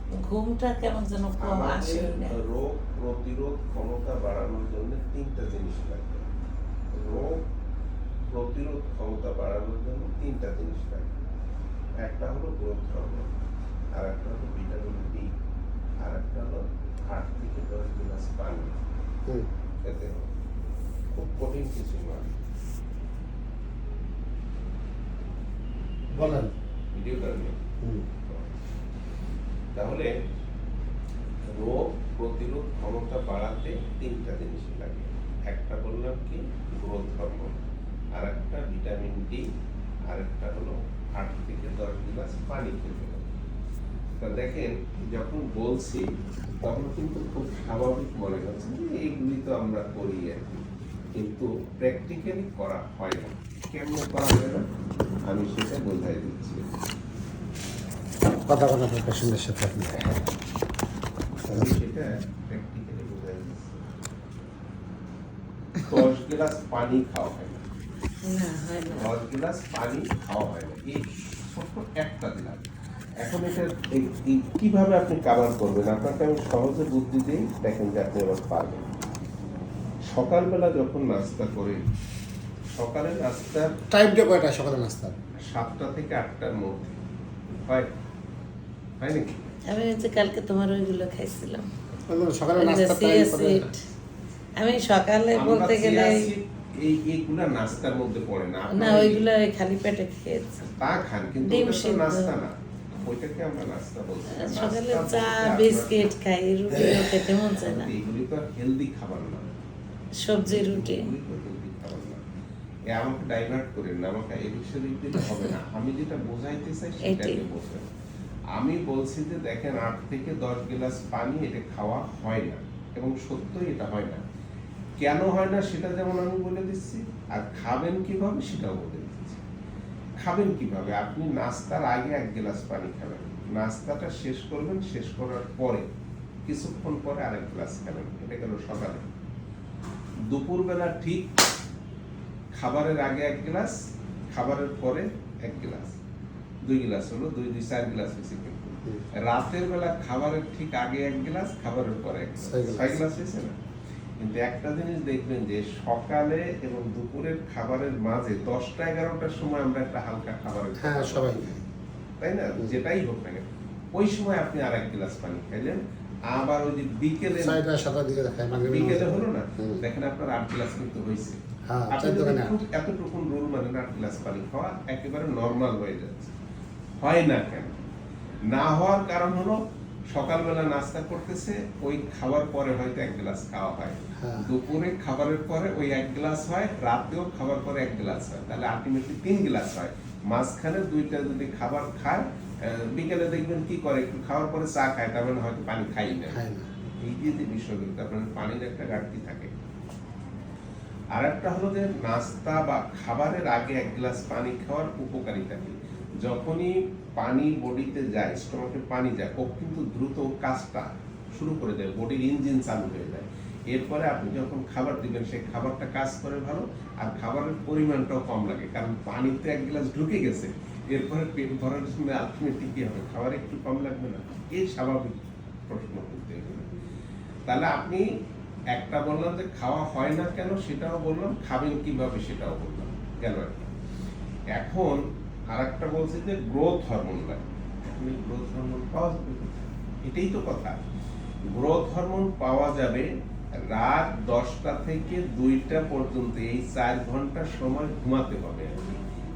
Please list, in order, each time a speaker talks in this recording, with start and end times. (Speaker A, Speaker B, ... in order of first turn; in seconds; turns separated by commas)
Speaker A: 0.1-2.4, Speaker B: 1.4-6.3, Speaker B: 6.9-7.4, Speaker B: 8.3-11.2, Speaker B: 12.0-13.3, Speaker B: 13.9-15.3, Speaker B: 16.0-18.8, Speaker B: 19.8-20.3, Speaker B: 21.1-22.4, Speaker C: 26.1-26.5, Speaker B: 26.9-27.6, Speaker B: 28.2-28.5, Speaker B: 29.8-30.1, Speaker B: 31.5-37.6, Speaker B: 38.2-39.5, Speaker B: 40.1-43.3, Speaker B: 44.2-50.6, Speaker B: 51.1-54.6, Speaker B: 55.3-56.6, Speaker C: 58.5-60.1, Speaker C: 61.5-61.8, Speaker B: 61.5-63.9, Speaker B: 65.8-67.6, Speaker A: 68.2-69.2, Speaker B: 68.9-78.9, Speaker B: 80.1-81.8, Speaker B: 82.7-83.8, Speaker C: 83.9-85.2, Speaker B: 85.4-87.0, Speaker B: 87.6-87.9, Speaker B: 89.0-89.5, Speaker A: 89.7-91.7, Speaker C: 92.1-93.7, Speaker A: 92.6-93.8, Speaker A: 94.6-96.3, Speaker B: 95.3-99.2, Speaker A: 98.7-100.6, Speaker B: 100.6-106.1, Speaker A: 101.4-102.3, Speaker A: 104.3-107.9, Speaker C: 106.8-107.1, Speaker B: 107.6-109.6, Speaker A: 110.2-111.1, Speaker B: 110.5-112.2, Speaker B: 112.9-117.8, Speaker A: 117.1-117.4, Speaker B: 118.5-124.2, Speaker B: 125.0-129.4, Speaker B: 130.2-135.8, Speaker B: 136.5-139.1, Speaker B: 140.3-141.3, Speaker B: 142.5-143.8, Speaker B: 144.3-146.0, Speaker B: 146.6-153.6, Speaker C: 152.4-153.0, Speaker B: 154.2-161.5, Speaker C: 160.8-161.6, Speaker B: 162.2-163.4, Speaker B: 163.9-167.6, Speaker C: 167.4-169.8, Speaker B: 168.6-171.4, Speaker C: 171.7-172.6, Speaker B: 171.9-176.3, Speaker B: 177.0-177.8, Speaker B: 178.5-179.6, Speaker B: 180.1-196.4, Speaker C: 184.2-184.5, Speaker C: 196.3-196.7, Speaker B: 197.0-199.5, Speaker B: 201.2-226.7, Speaker B: 227.5-228.1, Speaker B: 228.7-233.7, Speaker B: 234.5-240.8, Speaker B: 241.5-248.9